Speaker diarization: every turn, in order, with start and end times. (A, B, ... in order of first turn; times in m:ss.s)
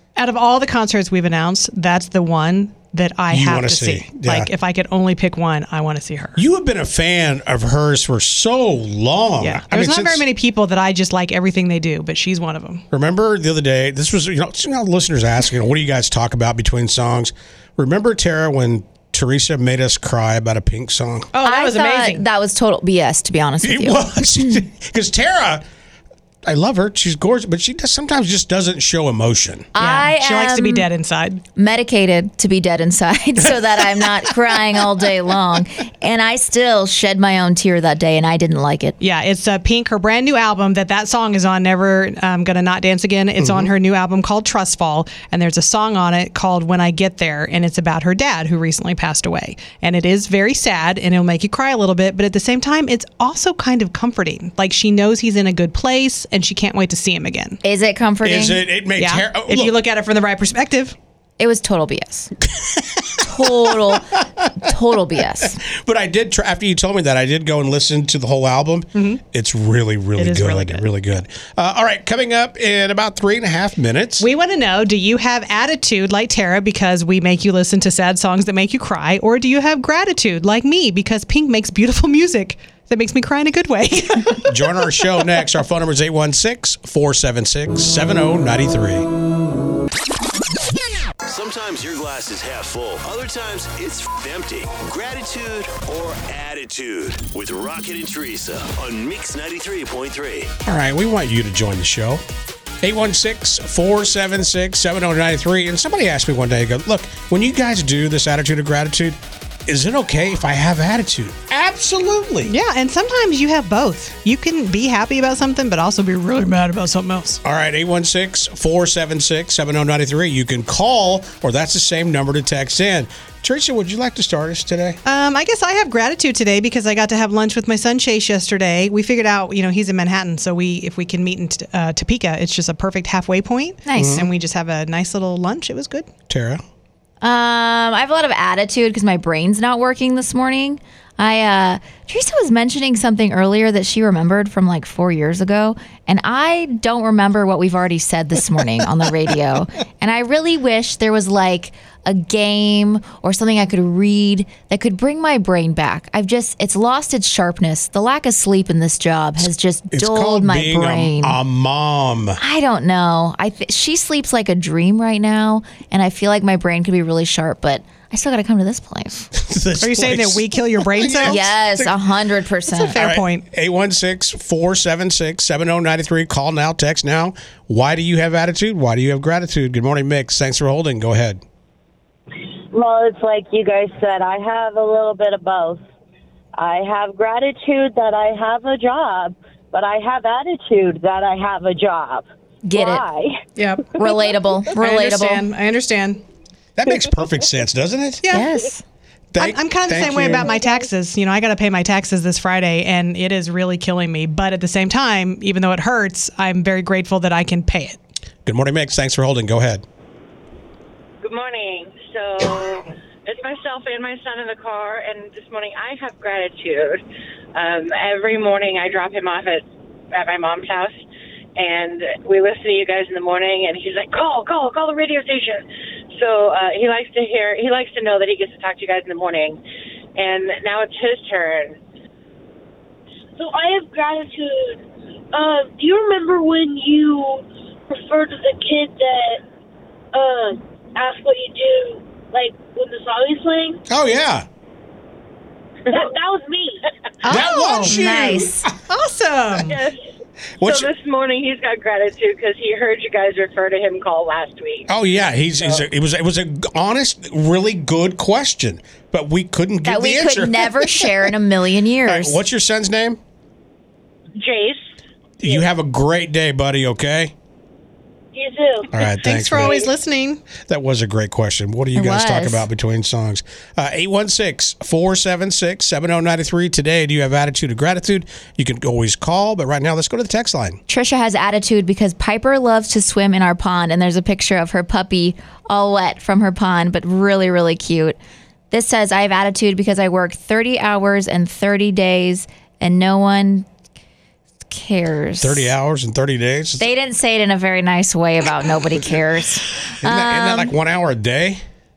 0:00.2-0:06.4 A
0:03.3-0:04.5 B
0:06.4-0:10.2 B
0:09.4-0:12.8 A
0:12.9-0:21.3 B
0:21.3-0:22.2 A
0:21.4-0:24.6 C
0:23.6-0:25.6 B
0:26.4-0:29.7 B
0:29.7-0:30.9 C
0:29.8-0:31.4 A
0:31.6-0:39.0 C
0:39.0-0:57.6 A
0:43.4-0:43.7 B
0:57.6-0:58.6 C
0:58.2-0:59.8 B
0:59.0-1:01.0 A
1:01.4-1:02.3 C
1:02.5-1:04.5 B
1:03.2-1:05.6 C
1:05.6-1:14.3 B
1:08.9-1:09.2 A
1:10.2-1:10.8 A
1:14.2-1:24.6 A
1:24.5-1:29.1 B
1:31.2-1:40.5 D
1:40.6-1:42.2 B
1:42.8-1:52.5 B
1:52.4-1:57.4 A
1:57.4-2:05.0 B
2:05.0-2:16.1 A
2:13.9-2:14.2 C
2:14.0-2:14.3 B
2:16.3-2:16.6 B
2:17.2-2:41.4 C
2:39.4-2:42.4 B
2:42.4-2:49.3 C
2:49.3-2:52.0 B
2:49.8-2:51.4 A
2:51.2-2:53.0 C
2:52.7-2:53.4 A
2:53.0-3:01.4 B
3:02.7-3:05.8 E
3:06.6-3:12.2 E
3:12.6-3:13.0 C
3:13.0-3:13.3 E
3:13.6-3:13.9 A
3:14.0-3:15.5 C
3:14.8-3:16.2 A
3:16.8-3:18.2 B
3:18.2-3:18.5 A
3:18.3-3:18.8 C
3:19.3-3:20.6 B
3:19.4-3:28.0 A
3:28.5-3:29.8 B
3:31.2-3:37.0 F
3:37.6-3:41.0 F
3:41.6-3:49.6 F
3:50.2-3:51.8 F
3:53.4-3:54.8 G
3:55.3-3:59.4 G
4:00.1-4:03.8 G
4:03.9-4:04.5 B
4:06.0-4:06.8 G
4:07.2-4:08.7 C
4:07.3-4:08.7 B
4:07.7-4:08.0 A
4:08.9-4:09.8 A
4:09.7-4:10.0 F
4:10.6-4:10.9 B
4:10.6-4:14.9 F
4:14.9-4:21.2 B
4:19.8-4:22.4 C
4:22.0-4:23.2 B
4:24.4-4:24.8 F
4:25.4-4:27.3 B
4:28.4-4:29.9 G
4:28.9-4:29.8 B
4:29.2-4:30.4 A
4:30.6-4:40.8 B
4:31.9-4:32.7 C
4:40.9-4:48.2 C
4:48.7-4:53.7 C
4:54.7-4:55.7 C
4:55.4-4:56.9 B
4:56.8-5:00.7 C
5:00.0-5:01.6 B